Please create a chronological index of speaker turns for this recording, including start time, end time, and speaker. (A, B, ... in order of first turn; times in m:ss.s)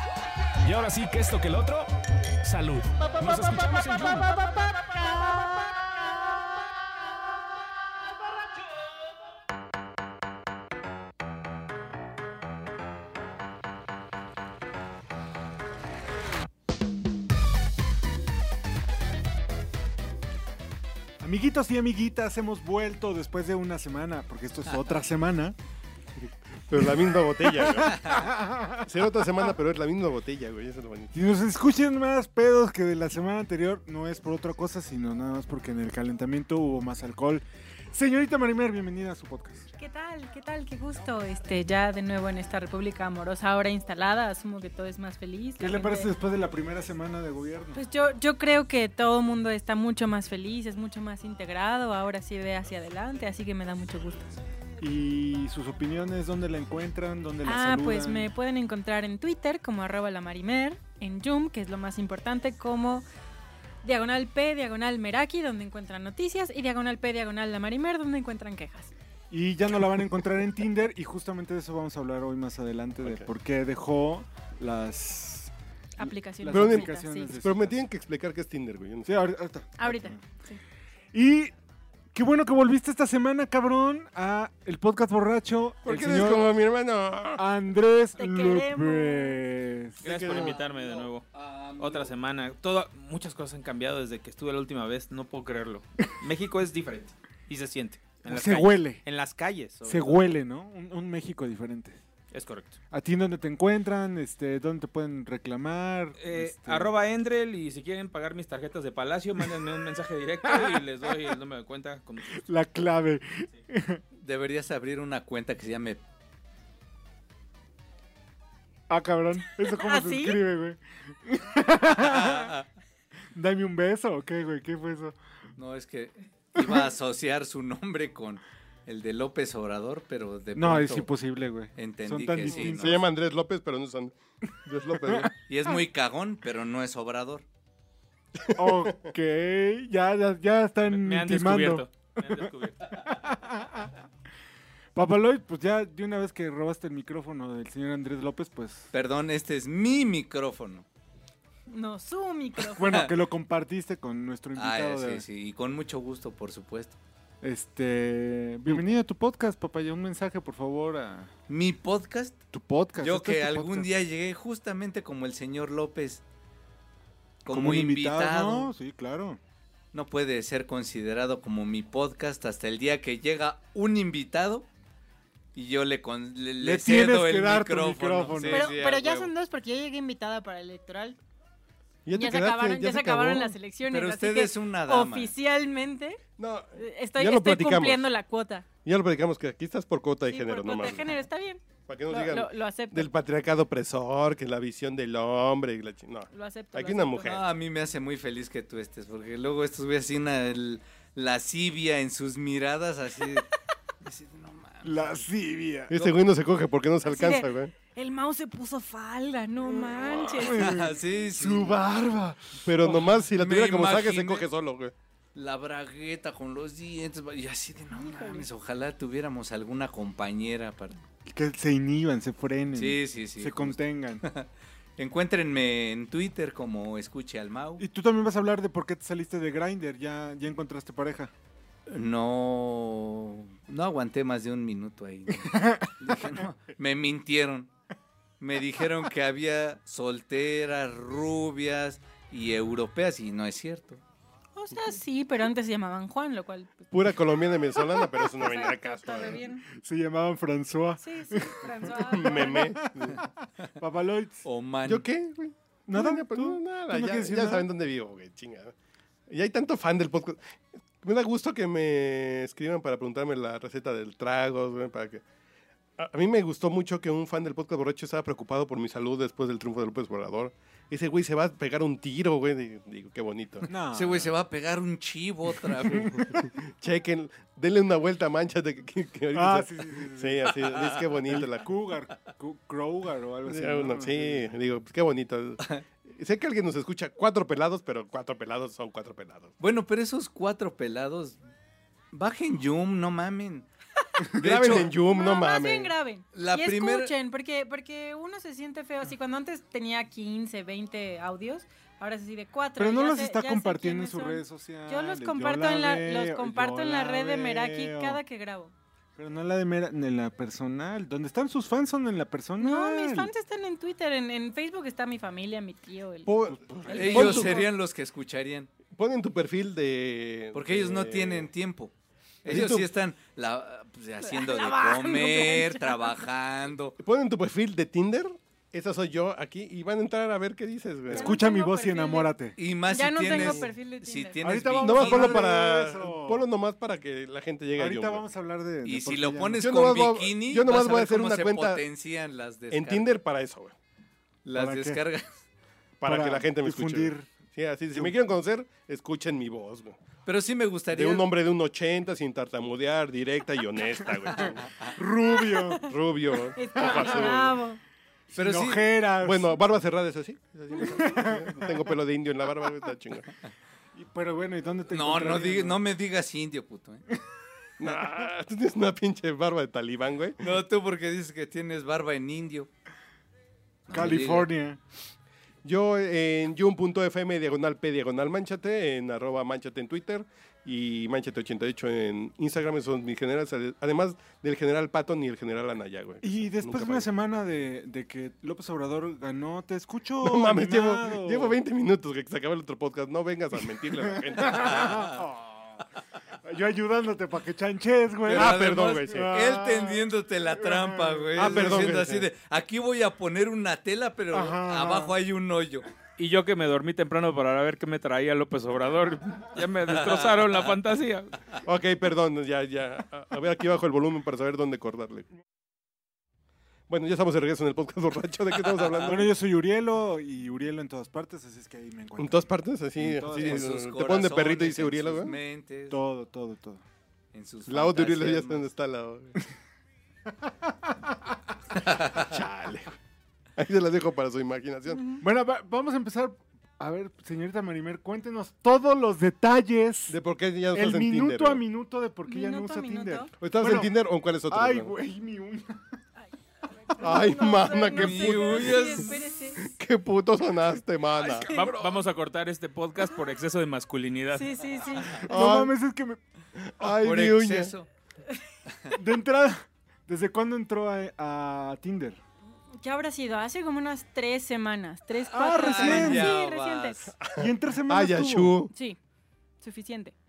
0:00.6-0:04.4 A
0:21.2-0:25.6 B
0:26.7-0:31.1 C
0:27.6-0:28.8 B
0:31.1-0:39.7 B
0:39.8-0:46.1 D
0:45.6-0:47.8 B
0:47.8-0:54.3 D
0:54.8-0:58.3 B
0:57.4-1:03.1 D
1:03.8-1:08.9 D
1:09.3-1:17.8 B
1:16.0-1:17.3 D
1:16.5-1:19.1 C
1:19.0-1:20.2 B
1:19.8-1:20.6 D
1:21.1-1:21.5 B
1:22.1-1:26.6 B
1:25.8-1:27.4 C
1:27.4-1:30.6 B
1:28.2-1:29.4 D
1:30.0-1:40.3 E
1:38.3-1:39.0 B
1:39.8-1:42.0 B
1:42.3-1:42.8 E
1:42.9-1:46.9 B
1:46.2-1:52.4 E
1:52.3-1:54.0 B
1:54.2-1:56.0 F
1:58.9-2:02.5 B
1:59.7-2:00.4 D
2:02.0-2:02.6 F
2:03.3-2:05.2 B
2:05.6-2:11.1 F
2:06.6-2:06.8 B
2:10.6-2:13.0 B
2:11.8-2:13.0 F
2:12.4-2:15.3 C
2:15.5-2:17.4 F
2:18.4-2:19.1 C
2:18.6-2:22.5 B
2:20.9-2:23.0 E
2:23.1-2:23.9 B
2:24.9-2:28.9 B
2:28.9-2:30.9 F
2:31.7-2:32.9 D
2:32.8-2:35.2 B
2:34.6-2:37.0 F
2:37.4-2:41.3 B
2:41.5-2:42.4 F
2:42.5-2:43.9 B
2:43.0-2:46.2 F
2:47.4-2:48.7 F
2:47.5-2:49.4 B
2:49.9-2:54.7 F
2:55.6-2:59.3 F
2:56.6-2:58.7 B
2:58.5-3:01.2 D
3:02.1-3:03.6 C
3:02.2-3:06.2 D
3:03.9-3:05.3 F
3:06.4-3:08.1 C
3:06.8-3:08.7 D
3:08.8-3:11.1 C
3:10.3-3:13.1 D
3:11.9-3:17.4 C
3:16.3-3:17.3 D
3:17.2-3:23.5 F
3:24.0-3:25.2 F
3:24.8-3:26.1 B
3:25.9-3:27.7 C
3:27.1-3:30.7 D
3:29.8-3:33.0 B
3:30.5-3:31.8 F
3:32.6-3:34.9 C
3:33.3-3:34.5 F
3:35.3-3:41.0 F
3:37.9-3:38.4 D
3:41.2-3:44.2 B
3:42.8-3:47.8 F
3:47.8-3:51.3 B
3:51.9-3:57.7 F
3:55.4-3:55.9 B
3:58.4-4:04.0 F
4:04.6-4:06.9 D
4:06.9-4:09.4 C
4:07.8-4:09.6 D
4:09.8-4:14.4 B
4:11.0-4:12.7 D
4:12.0-4:13.2 C
4:14.4-4:15.1 F
4:14.9-4:18.7 C
4:15.9-4:17.7 B
4:19.3-4:20.4 C
4:21.0-4:25.2 C
4:26.0-4:33.7 C
4:33.6-4:34.3 B
4:33.9-4:36.2 F
4:35.9-4:36.5 B
4:36.7-4:41.7 C
4:39.3-4:44.5 B
4:43.5-4:49.6 C
4:49.6-4:51.4 F
4:52.1-4:53.7 F
4:54.4-4:54.9 F
4:54.4-4:55.9 C
4:55.0-5:08.7 D
4:56.3-4:57.1 F
5:02.8-5:08.2 B
5:09.2-5:13.3 B
5:12.6-5:16.3 D
5:16.2-5:17.6 C
5:16.8-5:17.7 D
5:16.9-5:18.7 F
5:18.9-5:21.5 C
5:20.5-5:21.9 F
5:22.4-5:27.0 F
5:22.5-5:22.9 C
5:24.2-5:26.1 D
5:27.0-5:31.4 C
5:31.1-5:32.6 B
5:31.1-5:32.3 D
5:32.6-5:35.5 F
5:32.9-5:34.4 D
5:33.3-5:33.6 C
5:34.4-5:36.5 B
5:34.8-5:38.2 C
5:37.8-5:39.6 B
5:38.8-5:43.2 F
5:39.6-5:41.8 C
5:42.7-5:43.8 C
5:44.4-5:45.3 F
5:44.6-5:45.0 B
5:46.0-5:50.0 C
5:46.0-5:47.3 B
5:50.2-5:51.3 F
5:50.9-5:54.7 C
5:54.9-5:55.8 B
5:55.5-5:55.8 D
5:55.8-5:57.6 C
5:56.6-5:57.8 D
5:56.8-5:57.3 B
5:58.3-5:59.6 B
5:58.4-5:58.9 F
5:59.2-6:03.3 C
6:00.7-6:01.8 B
6:03.9-6:05.8 B
6:04.9-6:07.0 F
6:07.8-6:10.4 C
6:10.4-6:12.7 F
6:13.9-6:14.5 F
6:13.9-6:14.8 B
6:15.6-6:27.1 C
6:26.2-6:31.6 B
6:30.2-6:35.1 C
6:33.7-6:35.9 B
6:36.4-6:42.0 B
6:38.3-6:45.9 F
6:38.3-6:39.3 C
6:41.4-6:42.3 C
6:44.3-6:45.2 B
6:46.2-6:51.3 E
6:49.9-6:50.7 F
6:51.6-6:55.2 C
6:56.9-6:59.3 C
6:58.7-6:59.2 F
6:59.1-7:03.7 B
7:02.2-7:05.4 C
7:03.2-7:06.0 F
7:05.9-7:06.8 B
7:07.3-7:08.7 F
7:07.7-7:09.4 C
7:10.4-7:11.3 B
7:12.1-7:13.0 C
7:13.6-7:15.2 C
7:15.2-7:20.2 B
7:20.1-7:21.6 C
7:20.7-7:23.9 B
7:22.3-7:23.3 D
7:23.4-7:24.9 C
7:24.5-7:25.8 B
7:26.9-7:29.7 D
7:27.0-7:31.5 C
7:28.0-7:29.2 F
7:31.4-7:34.6 E
7:31.5-7:31.8 D
7:34.3-7:35.2 D
7:35.1-7:36.2 B
7:35.2-7:35.7 C
7:36.6-7:37.7 C
7:36.8-7:37.9 F
7:38.7-7:38.9 F
7:38.9-7:42.2 B
7:42.7-7:47.1 D
7:45.3-7:46.4 B
7:45.5-7:47.1 F
7:47.2-7:48.7 C
7:47.4-7:48.7 B
7:48.7-7:49.0 D
7:49.6-7:50.1 D